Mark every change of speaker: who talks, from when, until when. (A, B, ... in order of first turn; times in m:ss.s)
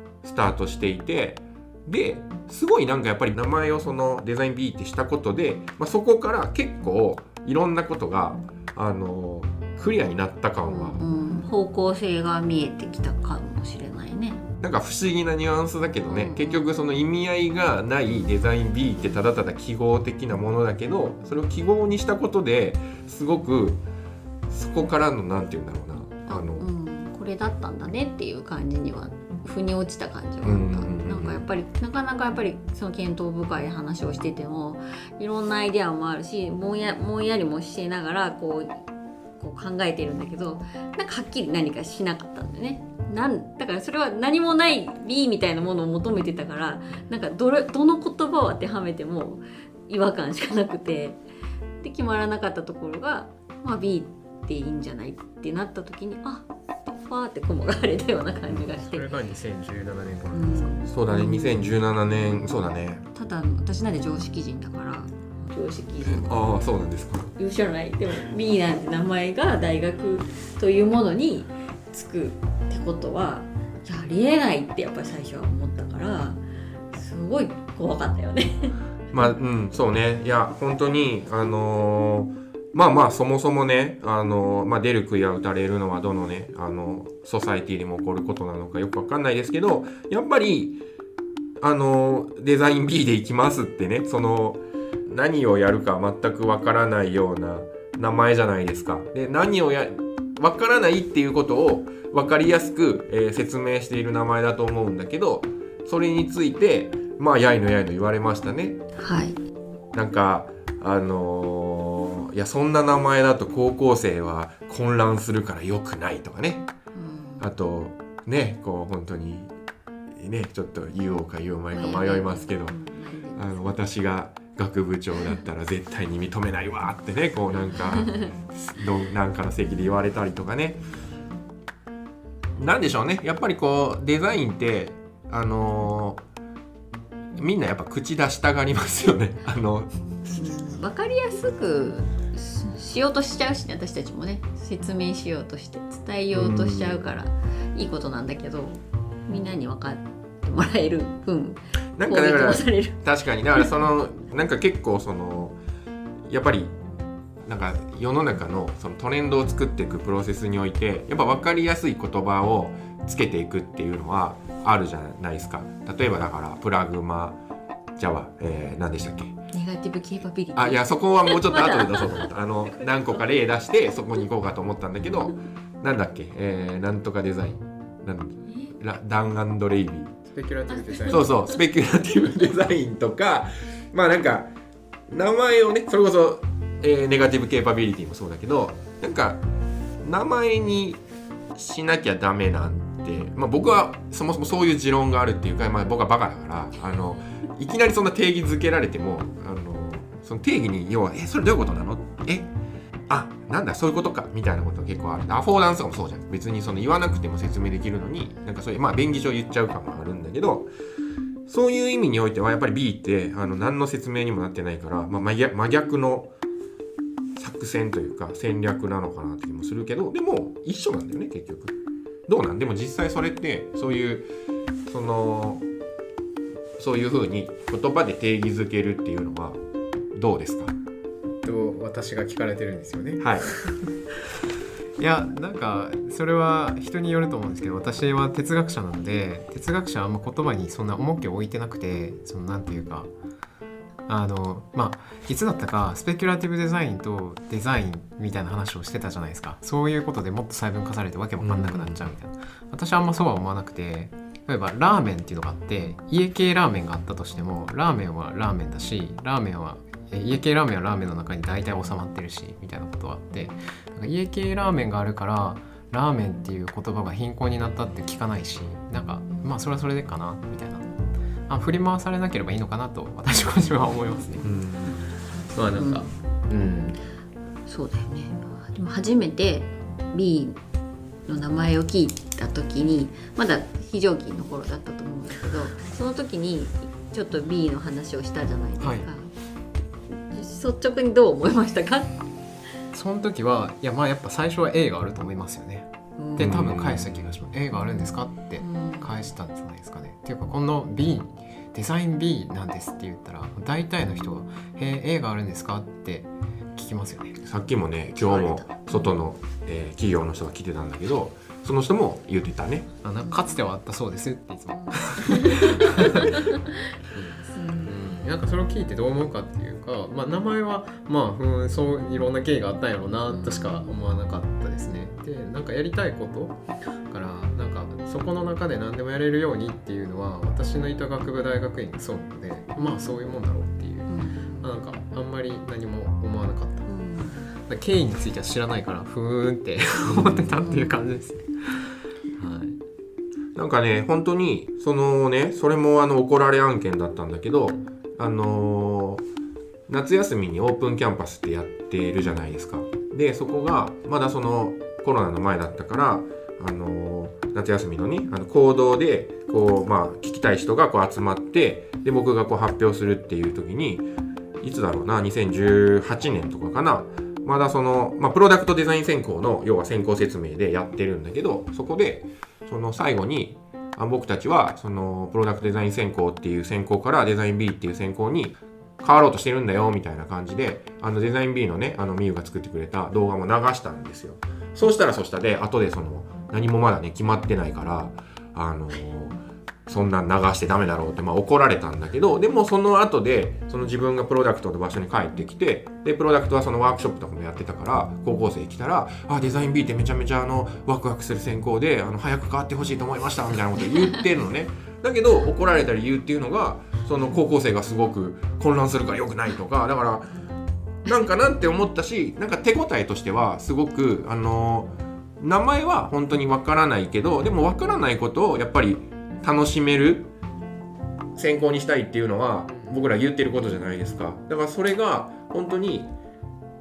0:00.2-0:11.0 A
0:10.7-0:14.4 B
0:14.6-0:23.8 A
0:16.1-0:16.8 B
0:24.5-0:26.7 A
0:26.3-0:38.8 B
0:30.4-0:31.4 A
0:39.4-0:51.2 B
0:51.8-0:59.1 B
0:58.5-1:00.8 C
1:00.3-1:01.7 B
1:00.9-1:03.0 A
1:02.2-1:06.3 B
1:06.0-1:07.3 A
1:07.4-1:16.4 B
1:16.9-1:18.8 B
1:19.1-1:30.8 A
1:31.6-1:48.8 A
1:49.0-1:49.4 B
1:49.9-1:56.7 A
1:57.0-1:57.4 B
1:57.4-1:59.5 A
2:00.1-2:02.8 A
2:01.7-2:03.8 B
2:03.4-2:10.8 A
2:12.6-2:16.2 A
2:17.4-2:20.5 A
2:20.3-2:33.0 B
2:26.3-2:27.0 A
2:32.0-2:35.6 A
2:36.3-2:36.8 A
2:37.4-2:47.4 A
2:48.0-2:49.4 A
2:49.5-2:53.3 B
2:50.6-3:00.1 A
2:58.5-2:58.7 B
3:00.3-3:01.3 C
3:00.7-3:01.3 B
3:01.1-3:04.5 A
3:05.1-3:09.4 A
3:10.0-3:11.0 A
3:11.5-3:22.5 A
3:23.1-3:30.7 A
3:31.5-3:36.3 A
3:37.4-3:41.8 A
3:42.3-3:44.3 A
3:44.9-3:45.6 A
3:46.8-3:49.6 A
3:50.1-3:50.8 A
3:51.4-3:53.9 C
3:53.2-3:53.5 A
3:55.0-4:03.1 C
4:04.1-4:30.9 C
4:11.4-4:12.1 A
4:31.5-4:37.0 C
4:33.9-4:34.4 B
4:35.8-4:36.1 B
4:37.7-4:40.6 B
4:41.3-4:49.3 B
4:48.8-4:49.1 C
4:50.2-4:52.3 B
4:52.9-5:07.4 C
4:56.2-4:56.8 B
4:56.4-4:57.3 A
4:58.6-4:59.3 B
5:07.4-5:12.9 A
5:08.1-5:09.1 B
5:13.0-5:16.5 C
5:13.2-5:13.6 B
5:14.8-5:16.8 B
5:17.1-5:36.9 C
5:17.5-5:18.0 B
5:23.3-5:24.2 B
5:32.8-5:33.1 B
5:34.1-5:34.7 B
5:36.9-5:37.4 B
5:37.7-5:42.8 C
5:40.1-5:40.6 A
5:40.5-5:41.0 B
5:43.6-5:49.2 A
5:49.9-6:04.1 A
6:04.6-6:50.2 A
6:51.0-7:00.3 A
7:01.4-7:06.1 A
7:02.7-7:03.0 C